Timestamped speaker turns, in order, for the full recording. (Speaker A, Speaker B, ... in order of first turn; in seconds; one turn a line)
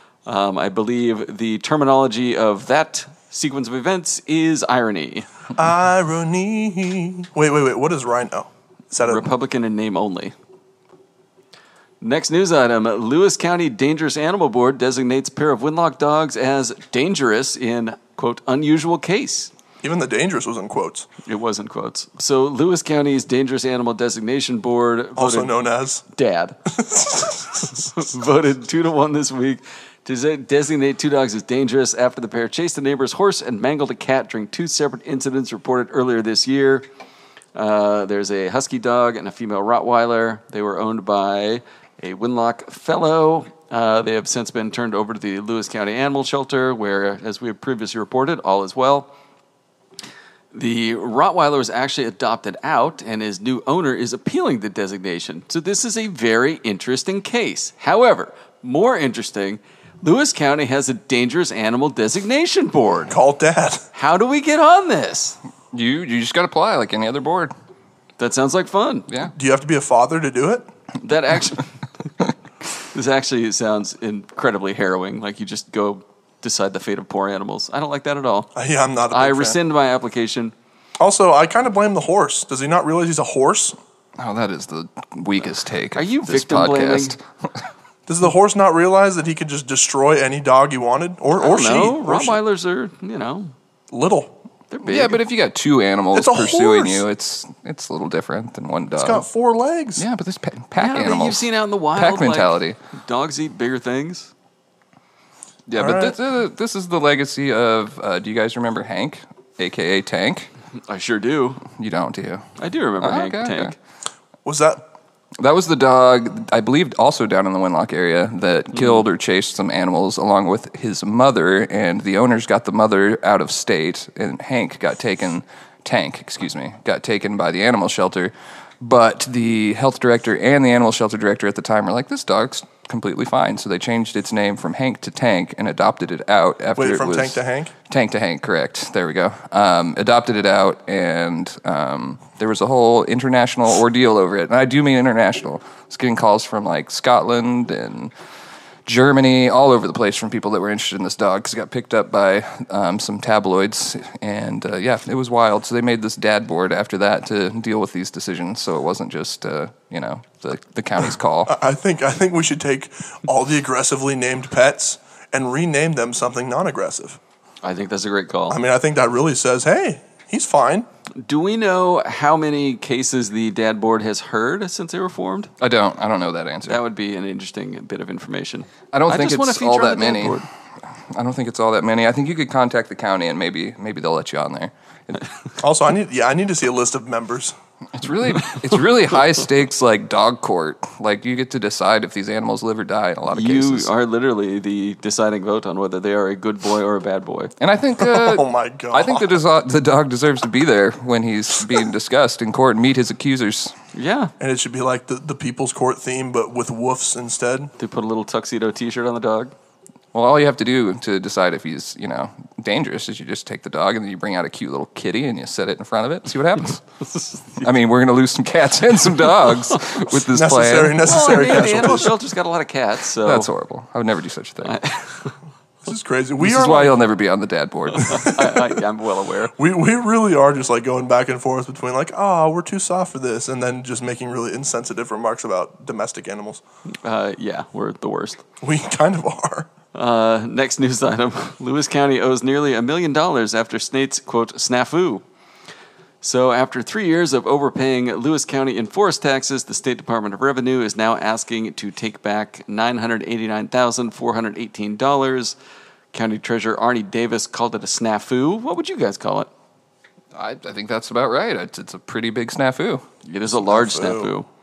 Speaker A: 0.3-5.3
Speaker B: 5.6-9.3
Speaker A: 9.0-10.3
Speaker A: 12.0-19.5
Speaker B: 19.8-21.1
Speaker A: 21.3-25.5
Speaker B: 25.2-26.0
Speaker A: 26.1-26.6
Speaker B: 26.7-27.9
Speaker A: 27.7-36.9
Speaker A: 37.5-49.1
Speaker A: 50.5-63.2
Speaker B: 63.1-63.8
Speaker A: 64.0-65.4
Speaker C: 65.7-67.5
Speaker A: 68.2-69.1
Speaker B: 69.3-70.7
Speaker A: 71.0-71.7
Speaker A: 72.9-78.5
Speaker B: 78.5-79.6
Speaker A: 79.1-80.5
Speaker B: 81.0-83.8
Speaker C: 84.2-87.2
Speaker A: 86.0-87.2
Speaker B: 88.1-92.4
Speaker A: 91.4-93.5
Speaker B: 93.9-94.4
Speaker A: 94.7-95.2
Speaker C: 94.9-99.3
Speaker B: 96.1-97.0
Speaker B: 99.0-100.0
Speaker C: 100.0-102.8
Speaker A: 100.8-104.3
Speaker C: 105.7-110.5
Speaker B: 105.8-106.2
Speaker A: 110.9-111.6
Speaker C: 111.7-113.8
Speaker A: 112.6-113.8
Speaker B: 114.5-114.8
Speaker C: 115.4-148.1
Speaker A: 118.8-119.0
Speaker B: 136.8-137.7
Speaker C: 148.9-161.6
Speaker B: 161.5-167.2
Speaker A: 167.6-168.6
Speaker B: 168.5-170.9
Speaker A: 171.2-175.5
Speaker C: 175.6-176.8
Speaker A: 176.7-180.5
Speaker C: 178.9-180.4
Speaker C: 181.1-185.2
Speaker B: 185.6-187.6
Speaker C: 187.9-193.9
Speaker A: 193.3-197.5
Speaker C: 197.6-203.7
Speaker B: 198.0-199.3
Speaker A: 203.9-204.3
Speaker B: 204.4-207.7
Speaker A: 207.8-209.5
Speaker C: 210.1-216.8
Speaker A: 217.1-217.7
Speaker C: 217.6-221.7
Speaker B: 220.2-222.2
Speaker A: 221.0-223.5
Speaker C: 223.2-224.8
Speaker A: 224.6-225.3
Speaker B: 225.8-227.0
Speaker C: 226.4-228.3
Speaker B: 227.9-228.8
Speaker A: 228.1-229.6
Speaker B: 229.6-236.6
Speaker A: 237.0-238.4
Speaker B: 238.6-239.7
Speaker A: 239.9-245.2
Speaker A: 246.2-255.6
Speaker A: 256.1-259.5
Speaker C: 260.4-263.1
Speaker A: 263.2-264.5
Speaker B: 263.5-264.4